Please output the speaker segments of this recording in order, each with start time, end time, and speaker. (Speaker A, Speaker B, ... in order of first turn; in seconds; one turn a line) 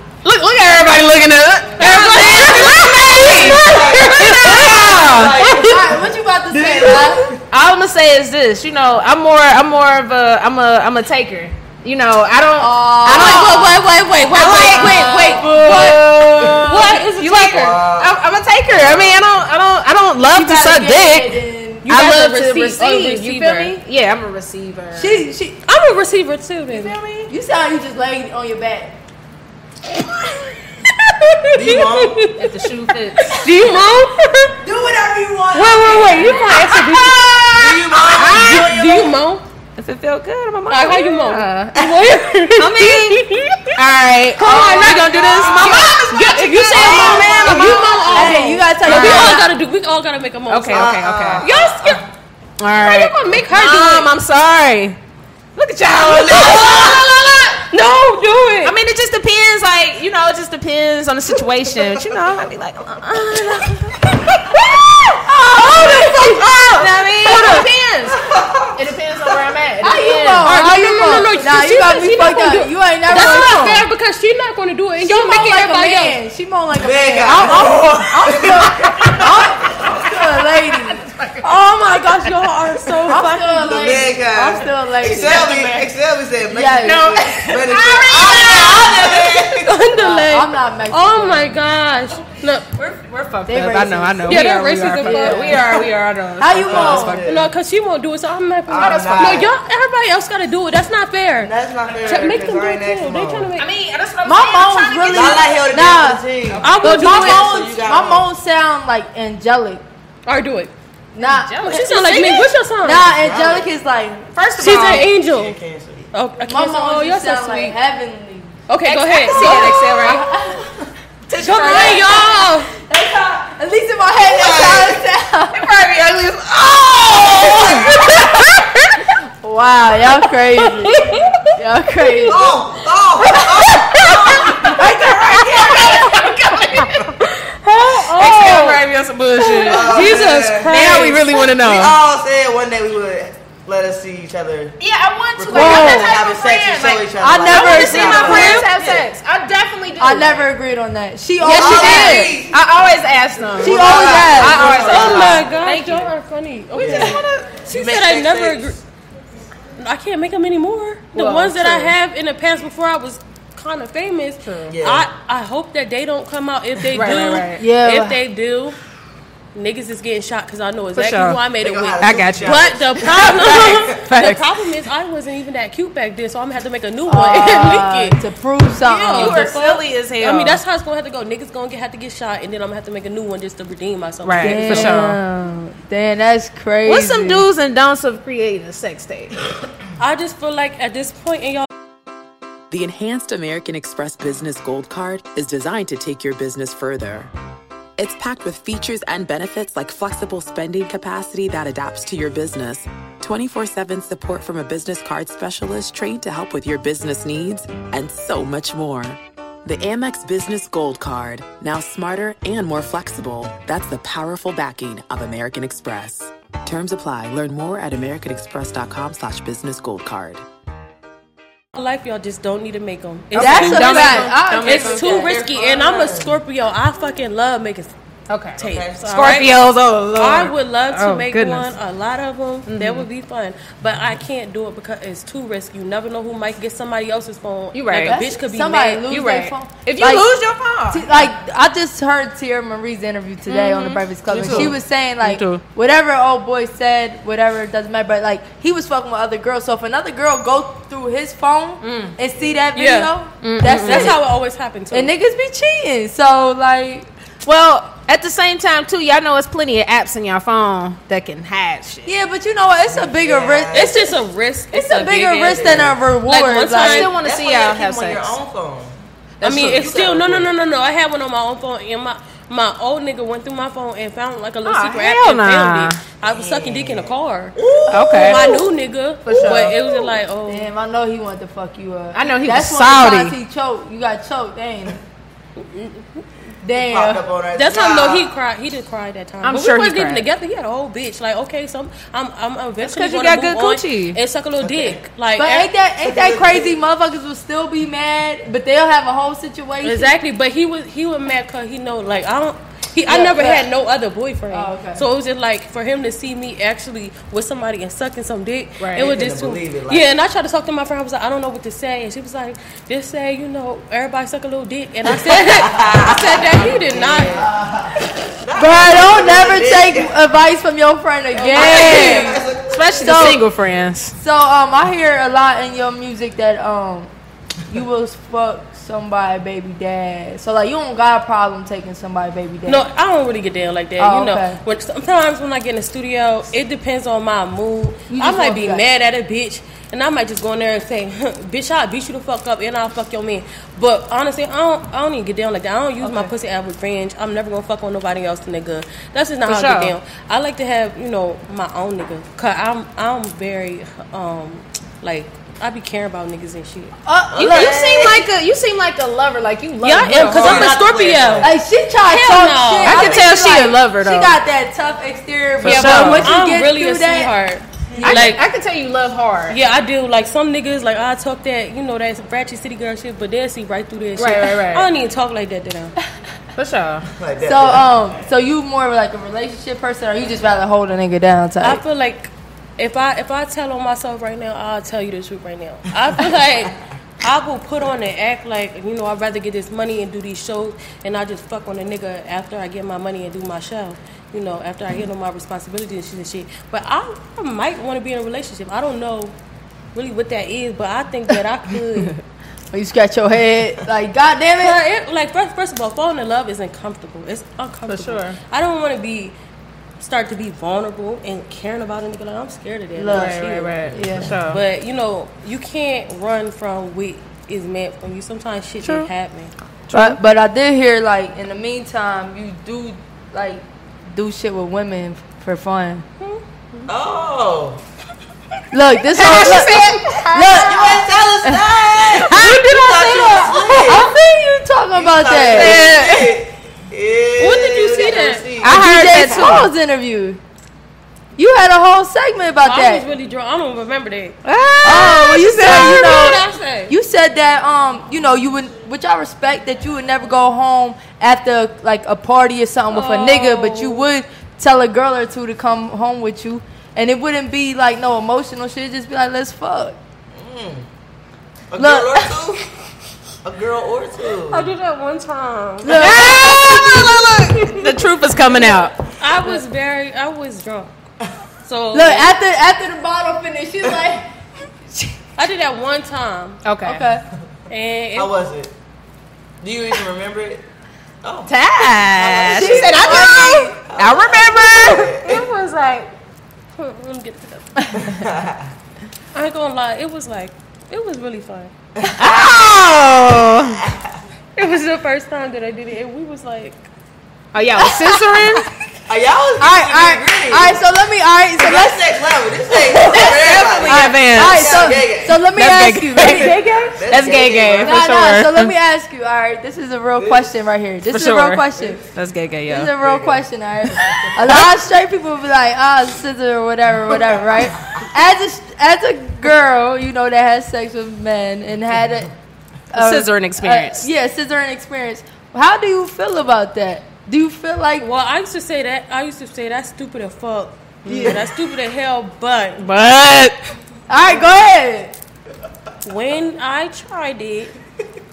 Speaker A: 0.2-5.8
Speaker B: 1.8-3.6
Speaker C: 2.0-7.4
Speaker D: 5.6-7.2
Speaker A: 7.5-25.2
Speaker D: 12.6-16.0
Speaker B: 14.3-16.0
Speaker C: 14.3-16.9
Speaker B: 16.6-17.8
Speaker C: 17.5-19.3
Speaker D: 20.2-21.9
Speaker B: 21.8-23.8
Speaker D: 24.9-25.6
Speaker B: 25.7-27.0
Speaker A: 26.7-27.3
Speaker D: 27.3-29.0
Speaker B: 30.8-32.5
Speaker C: 31.5-32.3
Speaker A: 32.3-33.5
Speaker B: 33.2-34.6
Speaker D: 34.6-36.6
Speaker B: 35.5-37.4
Speaker A: 35.9-38.9
Speaker C: 37.5-38.8
Speaker B: 38.3-39.4
Speaker A: 39.8-41.8
Speaker B: 40.7-43.7
Speaker A: 42.5-49.5
Speaker B: 44.4-52.0
Speaker C: 44.4-48.5
Speaker D: 44.5-45.0
Speaker D: 48.1-49.5
Speaker A: 50.5-51.4
Speaker C: 50.7-52.0
Speaker A: 52.6-55.0
Speaker B: 52.8-54.1
Speaker A: 55.5-57.6
Speaker C: 55.9-57.1
Speaker B: 57.6-58.8
Speaker A: 58.6-68.2
Speaker D: 65.6-66.4
Speaker B: 65.6-66.5
Speaker D: 67.2-67.7
Speaker B: 67.3-67.7
Speaker C: 68.1-68.8
Speaker A: 68.8-70.6
Speaker D: 69.8-73.8
Speaker B: 70.4-76.2
Speaker A: 73.1-73.8
Speaker D: 75.0-81.1
Speaker C: 76.7-80.2
Speaker B: 81.4-84.0
Speaker D: 83.0-85.5
Speaker C: 83.6-89.8
Speaker A: 85.2-85.9
Speaker D: 86.5-87.2
Speaker A: 86.8-89.4
Speaker B: 89.5-92.7
Speaker D: 89.9-91.6
Speaker A: 92.8-97.3
Speaker D: 93.5-95.8
Speaker B: 94.2-95.6
Speaker D: 96.4-97.2
Speaker C: 96.6-97.5
Speaker B: 97.2-103.7
Speaker C: 98.7-99.5
Speaker A: 98.7-99.5
Speaker C: 101.4-103.5
Speaker A: 103.5-105.5
Speaker D: 104.2-106.2
Speaker C: 105.1-108.2
Speaker A: 106.5-107.4
Speaker B: 106.6-107.6
Speaker D: 106.8-109.8
Speaker B: 110.2-110.7
Speaker D: 111.1-111.7
Speaker A: 111.2-112.5
Speaker B: 111.6-113.1
Speaker D: 112.8-114.3
Speaker C: 113.1-113.7
Speaker A: 114.3-115.1
Speaker B: 114.6-115.5
Speaker C: 115.2-116.1
Speaker B: 116.1-117.8
Speaker D: 116.4-118.6
Speaker B: 118.7-120.2
Speaker A: 118.8-120.3
Speaker D: 119.4-120.7
Speaker D: 121.3-125.6
Speaker C: 121.3-121.9
Speaker B: 121.4-122.7
Speaker A: 121.4-122.0
Speaker C: 124.2-125.0
Speaker A: 125.5-129.1
Speaker C: 127.3-128.2
Speaker D: 129.4-132.5
Speaker B: 131.0-131.3
Speaker C: 132.2-134.8
Speaker A: 133.3-137.2
Speaker D: 134.8-135.9
Speaker B: 135.8-136.3
Speaker B: 136.8-138.8
Speaker A: 137.9-142.0
Speaker B: 139.4-141.5
Speaker C: 139.6-144.8
Speaker A: 144.8-150.5
Speaker C: 145.3-149.0
Speaker D: 145.5-146.1
Speaker D: 147.2-148.7
Speaker B: 148.6-149.0
Speaker D: 150.0-152.3
Speaker A: 151.4-156.1
Speaker C: 151.4-152.7
Speaker C: 153.5-155.6
Speaker D: 153.6-155.1
Speaker B: 154.8-158.8
Speaker A: 156.7-157.6
Speaker C: 156.7-158.8
Speaker B: 159.8-168.8
Speaker A: 161.1-161.9
Speaker A: 164.4-164.8
Speaker C: 164.7-165.1
Speaker A: 166.9-167.6
Speaker D: 167.6-168.2
Speaker B: 169.5-178.2
Speaker A: 170.9-171.4
Speaker C: 171.5-174.0
Speaker A: 172.0-174.4
Speaker D: 177.1-179.6
Speaker A: 178.9-180.6
Speaker B: 179.0-185.1
Speaker A: 184.2-185.2
Speaker D: 184.4-187.4
Speaker A: 186.8-189.3
Speaker B: 190.0-191.7
Speaker E: 192.7-197.3
Speaker E: 198.0-220.4
Speaker B: 221.7-227.9
Speaker A: 223.3-225.3
Speaker D: 223.4-225.3
Speaker C: 225.0-226.4
Speaker A: 228.3-231.7
Speaker C: 228.6-229.5
Speaker B: 228.6-229.6
Speaker B: 230.1-239.1
Speaker A: 232.7-233.0
Speaker A: 237.7-238.2
Speaker D: 238.0-240.3
Speaker A: 239.1-241.2
Speaker D: 240.9-254.2
Speaker A: 243.5-245.6
Speaker C: 244.4-244.7
Speaker A: 251.8-252.2
Speaker B: 252.7-255.1
Speaker A: 253.4-254.1
Speaker D: 254.9-257.1
Speaker A: 257.4-262.1
Speaker D: 262.1-264.0
Speaker C: 262.9-264.0
Speaker B: 263.7-267.1
Speaker D: 264.7-267.1
Speaker C: 265.4-266.0
Speaker A: 266.7-268.4
Speaker C: 267.1-268.9
Speaker A: 269.4-270.0
Speaker B: 269.4-277.6
Speaker C: 269.5-270.5
Speaker A: 274.6-276.0
Speaker C: 276.3-278.6
Speaker A: 277.9-278.4
Speaker D: 277.9-278.2
Speaker B: 278.1-280.7
Speaker A: 279.2-279.8
Speaker D: 280.5-285.0
Speaker A: 282.1-283.3
Speaker B: 285.6-286.2
Speaker D: 286.6-287.2
Speaker C: 286.8-288.3
Speaker B: 287.5-295.7
Speaker A: 289.4-290.2
Speaker A: 292.8-294.2
Speaker C: 294.6-295.0
Speaker D: 295.4-300.1
Speaker C: 296.0-296.7
Speaker B: 299.8-317.5
Speaker D: 303.1-303.6
Speaker D: 304.5-305.1
Speaker A: 308.8-309.1
Speaker C: 309.0-310.1
Speaker C: 315.3-320.1
Speaker D: 318.5-322.4
Speaker B: 321.3-322.4
Speaker C: 321.5-323.3
Speaker A: 321.7-324.1
Speaker D: 323.0-323.4
Speaker D: 324.1-327.1
Speaker D: 327.7-332.8
Speaker B: 332.6-356.9
Speaker D: 334.0-334.6
Speaker D: 338.1-338.8
Speaker A: 349.5-349.9
Speaker D: 357.1-357.8
Speaker C: 357.3-358.3
Speaker A: 357.4-360.8
Speaker B: 359.8-361.5
Speaker C: 360.1-361.5
Speaker D: 361.4-367.3
Speaker B: 362.1-363.2
Speaker A: 362.8-364.4
Speaker A: 365.6-366.4
Speaker B: 365.6-368.4
Speaker D: 367.9-368.4
Speaker A: 368.0-369.6
Speaker B: 369.5-375.9
Speaker A: 374.2-374.9
Speaker A: 376.6-377.1
Speaker C: 377.1-378.0
Speaker D: 377.4-381.8
Speaker B: 381.6-399.3
Speaker B: 399.9-402.2
Speaker D: 402.7-404.8
Speaker B: 404.6-409.3
Speaker A: 407.9-408.4
Speaker B: 410.0-413.9
Speaker D: 412.9-413.4
Speaker A: 413.1-414.6
Speaker C: 413.9-414.4
Speaker D: 413.9-414.4
Speaker B: 414.5-419.5
Speaker A: 418.8-419.1
Speaker A: 419.9-420.2
Speaker D: 419.9-426.0
Speaker C: 426.9-427.8
Speaker D: 428.7-431.6
Speaker A: 429.1-431.0
Speaker C: 430.5-434.1
Speaker A: 432.1-434.0
Speaker D: 433.7-435.8
Speaker C: 434.9-439.6
Speaker A: 435.4-436.4
Speaker B: 437.4-438.5
Speaker A: 438.6-439.7
Speaker D: 438.6-440.4
Speaker D: 441.4-443.0
Speaker B: 442.6-444.4
Speaker A: 444.4-446.6
Speaker D: 444.8-460.0
Speaker B: 445.6-446.9
Speaker B: 452.9-454.1
Speaker C: 460.3-460.9
Speaker C: 461.7-462.6
Speaker D: 461.8-462.4
Speaker C: 463.4-464.7
Speaker B: 464.5-466.3
Speaker D: 465.8-467.2
Speaker A: 465.9-468.9
Speaker B: 469.2-471.0
Speaker B: 471.6-472.3
Speaker D: 471.9-474.3
Speaker B: 475.4-476.6
Speaker A: 476.6-477.0
Speaker D: 476.8-477.2
Speaker B: 477.7-478.3
Speaker C: 478.1-478.7
Speaker C: 479.6-480.6
Speaker C: 481.2-485.4
Speaker A: 481.5-486.1
Speaker D: 482.5-483.8
Speaker B: 486.8-487.9
Speaker C: 487.9-488.7
Speaker B: 489.3-491.7
Speaker C: 492.0-492.7
Speaker A: 492.1-493.8
Speaker C: 493.5-494.2
Speaker B: 494.6-496.9
Speaker A: 497.5-498.7
Speaker D: 497.8-498.4
Speaker C: 499.1-500.8
Speaker D: 499.6-507.0
Speaker C: 501.6-505.4
Speaker A: 502.9-504.9
Speaker A: 505.5-508.7
Speaker C: 506.9-508.0
Speaker D: 507.8-512.0
Speaker C: 510.2-510.4
Speaker A: 511.1-512.9
Speaker D: 512.7-522.3
Speaker C: 513.0-513.4
Speaker A: 514.1-514.6
Speaker D: 522.9-528.1
Speaker A: 522.9-524.1
Speaker B: 528.0-532.9
Speaker A: 531.0-531.4
Speaker C: 531.1-531.4
Speaker A: 532.8-533.6
Speaker D: 534.1-535.1
Speaker B: 536.0-537.7